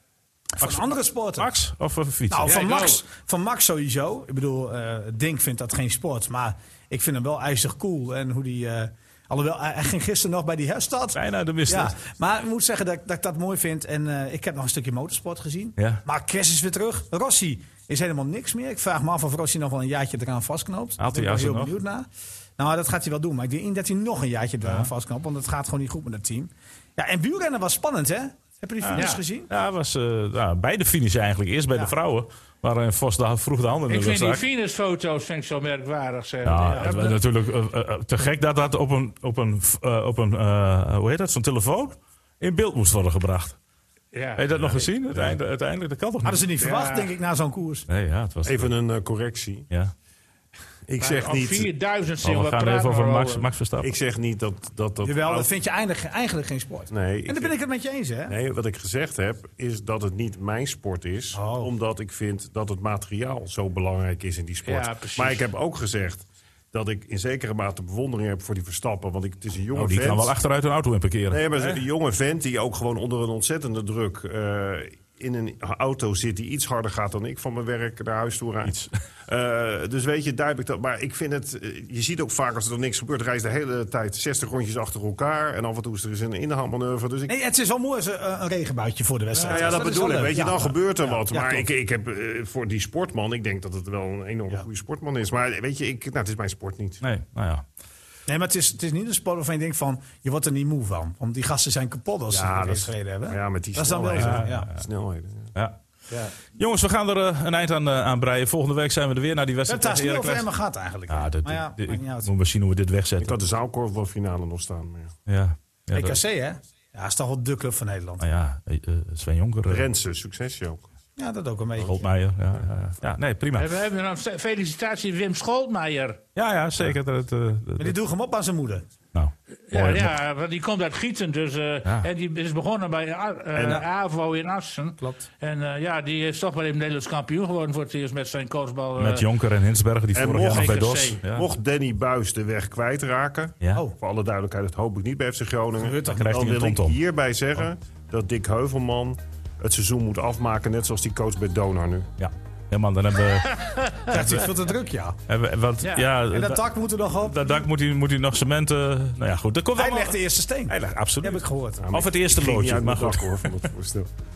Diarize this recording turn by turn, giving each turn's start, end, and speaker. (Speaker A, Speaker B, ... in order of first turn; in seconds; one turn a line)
Speaker A: 0.6-1.5
Speaker B: 0.6-2.5
Speaker A: 2.3-22.1
Speaker C: 2.4-3.0
Speaker B: 11.1-11.9
Speaker B: 21.0-21.7
Speaker A: 22.6-29.5
Speaker B: 28.8-34.4
Speaker C: 28.9-29.2
Speaker C: 33.9-37.2
Speaker B: 36.4-43.6
Speaker C: 44.1-44.9
Speaker B: 44.4-46.4
Speaker A: 46.2-47.9
Speaker C: 46.6-47.1
Speaker B: 47.9-48.7
Speaker D: 48.4-49.7
Speaker D: 50.9-51.7
Speaker C: 51.0-53.5
Speaker B: 52.2-53.9
Speaker D: 53.8-55.5
Speaker A: 55.0-58.3
Speaker D: 56.9-57.5
Speaker D: 58.3-70.3
Speaker A: 61.3-61.7
Speaker C: 64.6-65.5
Speaker B: 69.7-71.8
Speaker D: 71.3-87.3
Speaker A: 87.3-91.7
Speaker C: 89.3-89.7
Speaker D: 89.4-97.0
Speaker B: 97.0-97.6
Speaker A: 98.3-104.7
Speaker D: 102.3-105.5
Speaker B: 104.1-104.8
Speaker B: 106.5-110.5
Speaker A: 109.7-112.3
Speaker B: 111.1-113.4
Speaker D: 113.2-115.1
Speaker B: 115.3-116.2
Speaker A: 115.9-118.2
Speaker B: 118.2-119.9
Speaker D: 119.7-120.8
Speaker A: 121.2-122.0
Speaker B: 121.8-123.7
Speaker C: 123.5-126.2
Speaker B: 126.3-128.0
Speaker A: 127.8-128.9
Speaker B: 129.1-130.1
Speaker C: 129.7-139.3
Speaker D: 133.6-133.8
Speaker B: 139.0-141.5
Speaker D: 140.1-152.1
Speaker C: 140.3-141.2
Speaker A: 145.8-146.3
Speaker B: 146.1-147.0
Speaker B: 152.2-154.5
Speaker C: 153.5-154.0
Speaker A: 154.1-155.2
Speaker B: 155.3-163.7
Speaker C: 155.8-156.1
Speaker A: 156.2-157.6
Speaker A: 159.7-161.8
Speaker D: 161.8-164.1